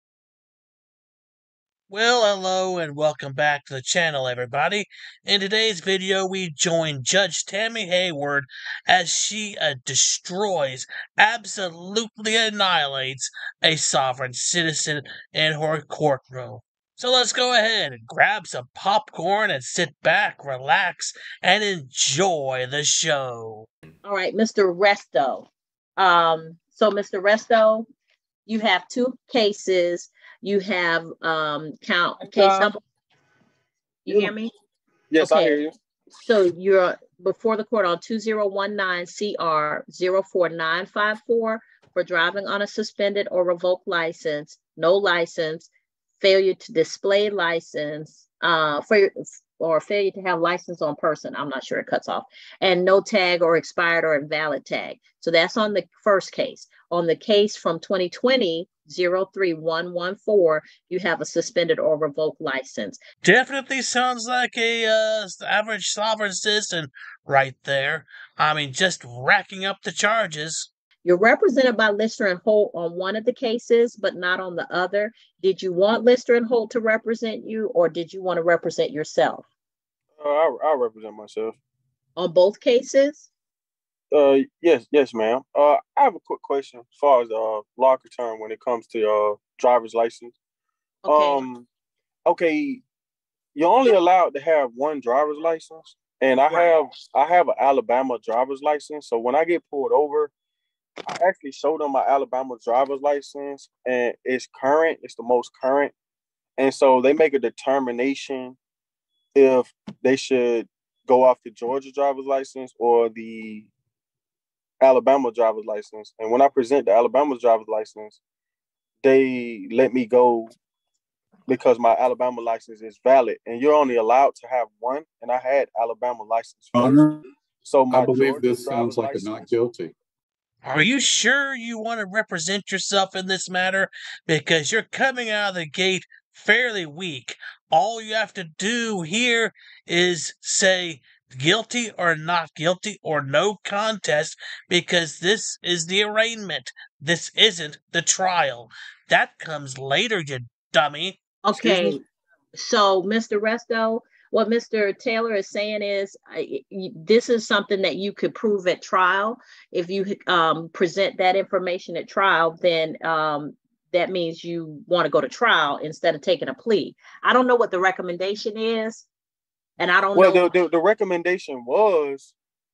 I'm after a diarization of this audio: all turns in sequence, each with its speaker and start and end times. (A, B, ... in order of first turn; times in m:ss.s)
0:01.9-0:23.7 A
0:24.0-0:27.9 B
0:28.5-0:32.8 B
0:32.2-0:32.7 C
0:34.0-0:34.5 B
0:35.1-0:35.7 C
0:35.2-0:35.6 B
0:36.2-0:45.7 B
0:46.2-1:03.0 B
1:03.2-1:10.7 A
1:11.0-1:19.4 B
1:20.2-1:21.6 C
1:22.2-1:23.3 B
1:24.1-1:30.3 C
1:31.0-1:31.4 B
1:31.1-1:31.6 C
1:32.2-1:32.8 C
1:33.5-1:40.3 C
1:41.1-1:45.9 C
1:46.6-1:48.6 C
1:49.3-1:53.7 C
1:54.8-1:58.2 C
1:59.0-2:00.5 C
2:01.5-2:07.0 C
2:06.7-2:07.2 D
2:07.6-2:09.4 C
2:07.9-2:09.9 D
2:10.6-2:31.2 A
2:31.4-2:32.0 B
2:31.5-2:32.0 C
2:32.5-2:49.0 B
2:49.8-2:50.5 B
2:50.1-2:52.3 C